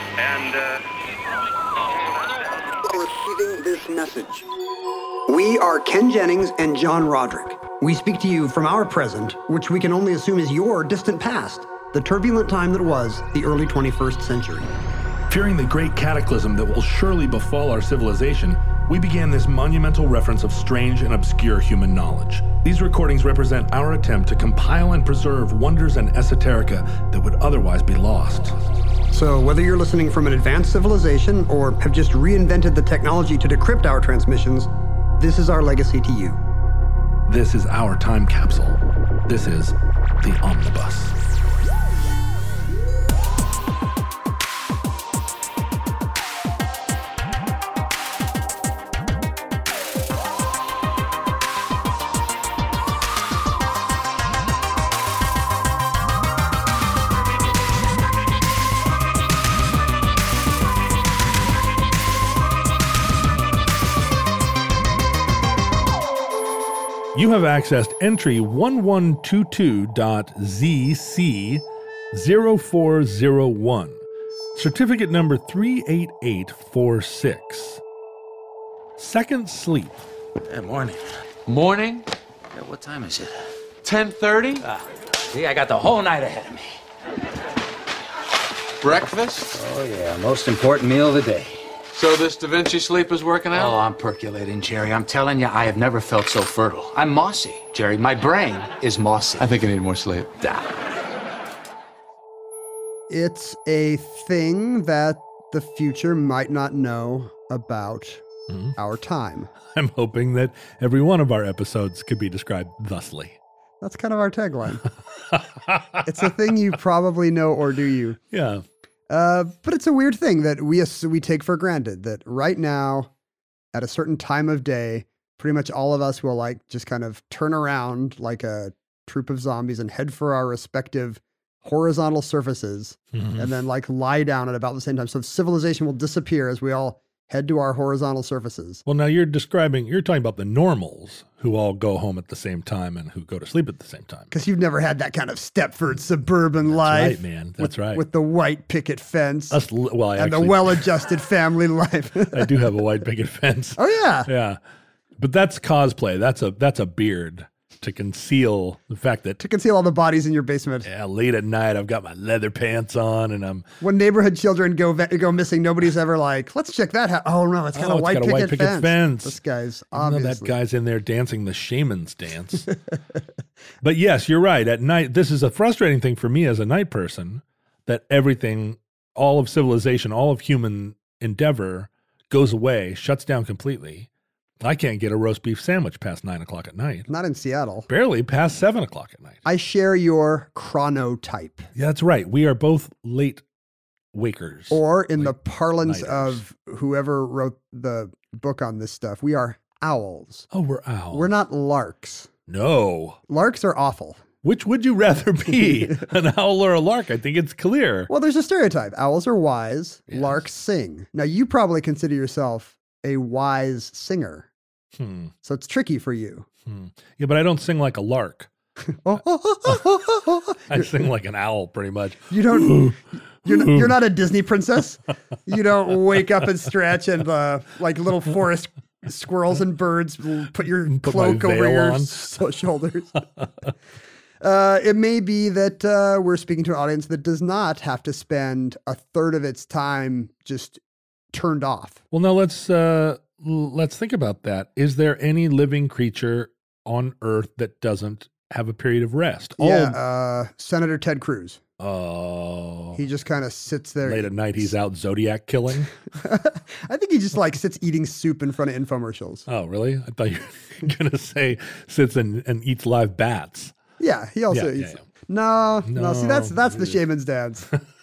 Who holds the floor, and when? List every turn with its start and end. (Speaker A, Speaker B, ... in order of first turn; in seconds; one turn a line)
Speaker A: 0.2-2.8
Speaker B: 2.8-4.5
Speaker B: 5.3-14.7
Speaker C: 15.3-28.6
Speaker B: 29.1-36.4
Speaker C: 37.3-41.1
Speaker C: 67.1-74.0
Speaker C: 74.5-77.8
Speaker C: 79.0-80.0
Speaker D: 80.5-81.0
Speaker E: 81.5-82.0
Speaker D: 82.5-83.4
Speaker E: 83.8-84.6
Speaker D: 85.3-86.8
Speaker E: 88.8-89.5
Speaker D: 89.5-91.7
Speaker E: 91.9-93.8
Speaker D: 93.5-99.5
Speaker E: 99.4-100.3
Speaker D: 100.4-100.7
Speaker B: 103.1-108.2
Speaker C: 108.5-108.7
Speaker B: 108.8-109.5
Speaker C: 109.7-113.4
Speaker B: 113.8-114.8
Speaker C: 115.3-116.3
Speaker B: 116.0-118.2
Speaker C: 118.3-118.6
Speaker B: 119.1-123.1
Speaker B: 123.7-138.8
Speaker C: 133.1-133.5
Speaker C: 138.8-144.3
Speaker B: 144.3-149.6
Speaker C: 146.7-148.0
Speaker C: 149.5-150.9
Speaker B: 150.2-152.6
Speaker C: 152.3-154.6
Speaker B: 153.8-154.3
Speaker C: 155.2-159.4
Speaker B: 159.4-160.9
Speaker C: 160.8-163.7
Speaker B: 163.8-170.5
Speaker C: 167.7-169.4
Speaker C: 169.9-172.7
Speaker C: 173.8-184.1
Speaker C: 184.6-187.1
Speaker B: 187.1-187.9
Speaker C: 187.9-189.4
Speaker B: 189.4-191.7
Speaker C: 191.7-193.4
Speaker C: 194.1-196.4
Speaker B: 194.7-200.5
Speaker C: 200.5-201.3
Speaker B: 201.1-202.3
Speaker C: 202.5-203.2
Speaker B: 203.3-204.2
Speaker C: 204.4-208.1
Speaker B: 208.1-214.5
Speaker C: 210.1-210.4
Speaker C: 215.0-215.3
Speaker B: 215.4-216.5
Speaker C: 216.7-218.5
Speaker B: 219.0-221.0
Speaker C: 220.7-224.0
Speaker B: 222.3-233.2
Speaker C: 230.9-232.3
Speaker B: 234.4-240.8
Speaker B: 241.3-242.0
Speaker C: 242.1-250.0
Speaker B: 249.6-251.6
Speaker C: 251.8-253.0
Speaker B: 252.9-254.7
Speaker C: 254.0-255.9
Speaker B: 256.1-259.5
Speaker C: 259.5-263.7
Speaker B: 264.0-267.7
Speaker C: 264.5-265.0
Speaker C: 265.9-267.0